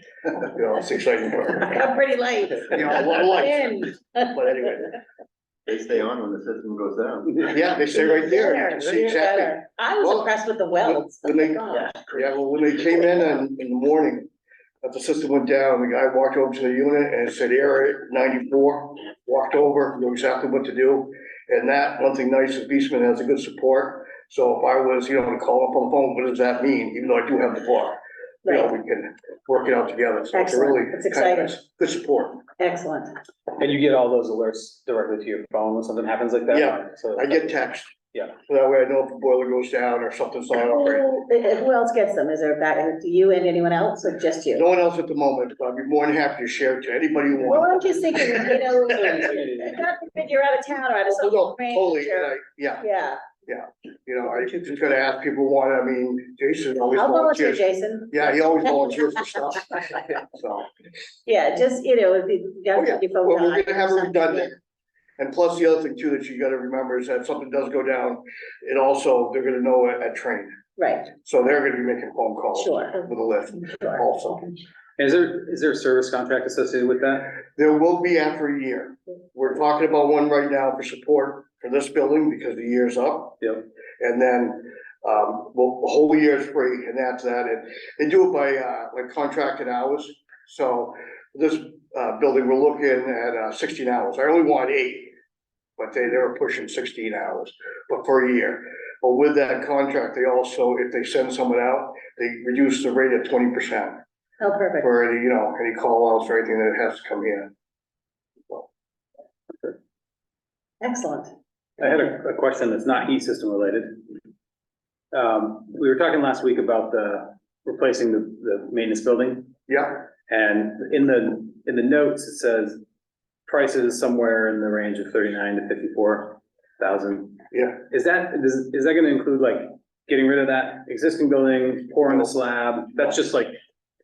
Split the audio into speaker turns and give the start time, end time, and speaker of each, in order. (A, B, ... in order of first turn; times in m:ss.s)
0:00.3-0:01.8 A
0:01.6-0:04.5 B
0:02.6-0:05.0 A
0:05.7-0:07.6 C
0:07.4-0:14.3 A
0:07.9-0:11.9 B
0:14.8-0:32.4 A
0:30.3-0:31.5 B
0:32.6-0:33.1 B
0:33.6-0:37.6 D
0:36.5-0:37.9 A
0:38.5-0:41.2 A
0:40.6-0:44.6 B
0:44.5-0:48.2 A
0:47.4-0:53.2 B
0:48.3-0:49.8 D
0:51.1-0:52.9 A
0:53.5-1:00.7 A
0:56.9-0:59.1 B
1:01.3-1:04.5 B
1:02.8-1:04.6 A
1:05.2-1:10.5 A
1:10.8-1:11.1 B
1:11.1-1:14.6 A
1:12.6-1:13.0 B
1:13.6-1:14.1 B
1:15.0-1:17.3 D
1:17.6-1:23.4 A
1:24.0-1:35.2 A
1:35.8-1:44.0 A
1:44.4-1:44.9 B
1:44.8-1:47.5 A
1:50.8-1:51.3 B
1:51.8-1:54.0 D
1:55.1-1:59.5 D
1:59.7-2:00.0 A
2:00.1-2:02.8 D
2:03.5-2:13.6 D
2:07.5-2:07.8 A